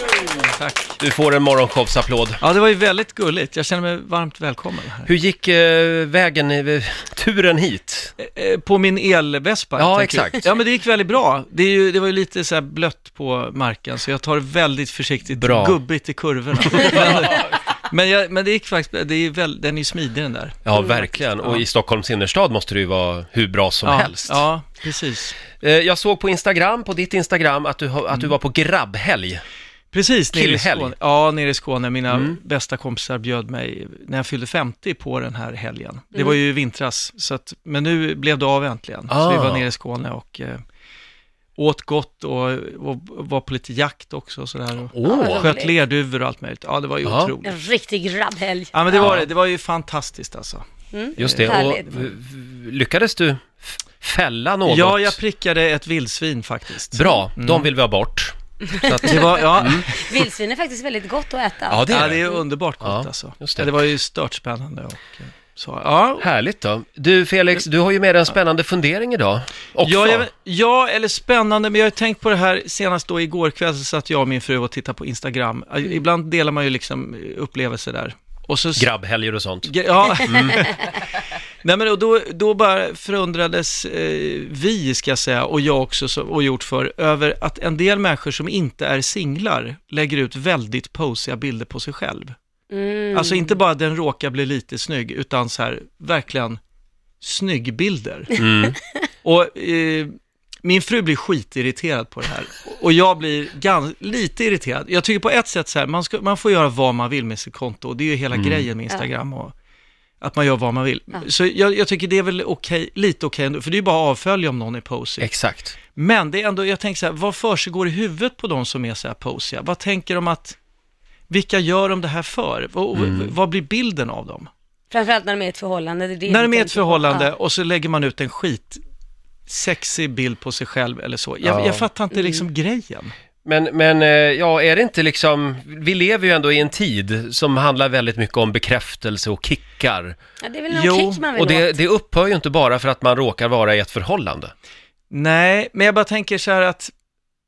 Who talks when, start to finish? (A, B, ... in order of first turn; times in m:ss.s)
0:00.5-0:01.0 A
0:01.0-0:02.4 B
0:02.4-0:05.1 A
0:05.0-0:08.1 B
0:08.2-0:20.7 A
0:09.8-0:10.5 B
0:15.4-0:15.8 B
0:16.6-0:17.5 B
0:20.6-0:24.4 B
0:21.4-0:21.6 A
0:23.8-0:25.4 A
0:25.6-0:29.4 B
0:29.9-0:40.6 A
0:30.3-0:30.9 B
0:39.1-0:39.6 B
0:41.6-0:47.5 A
0:44.9-0:45.5 B
0:45.0-0:45.7 C
0:47.0-0:47.3 B
0:47.4-0:49.2 C
0:48.7-0:50.6 A
0:49.0-0:49.2 B
0:50.9-0:52.1 C
0:51.2-0:51.6 A
0:51.2-0:55.2 B
0:54.7-0:57.7 A
0:56.9-0:59.9 B
0:58.8-1:02.4 C
0:59.0-1:00.0 A
1:01.7-1:02.2 B
1:01.9-1:06.2 A
1:02.8-1:03.7 B
1:06.2-1:10.3 B
1:09.8-1:18.9 A
1:18.8-1:20.7 B
1:19.6-1:20.8 A
1:21.6-1:32.3 A
1:32.7-1:33.5 C
1:33.1-1:36.6 A
1:37.2-1:38.3 A
1:38.3-1:38.8 B
1:39.2-1:40.1 A
1:40.6-1:49.5 A
1:48.3-1:48.6 B
1:50.2-1:55.3 A
1:55.2-1:55.8 B
1:55.9-2:00.6 A
2:01.3-2:04.5 A
2:03.0-2:03.3 B
2:04.9-2:07.3 C
2:06.3-2:08.8 A
2:09.5-2:13.1 A
2:11.4-2:11.8 B
2:12.1-2:12.4 C
2:13.4-2:20.2 B
2:20.4-2:21.8 C
2:20.7-2:21.2 A
2:21.3-2:24.5 B
2:25.1-2:26.9 A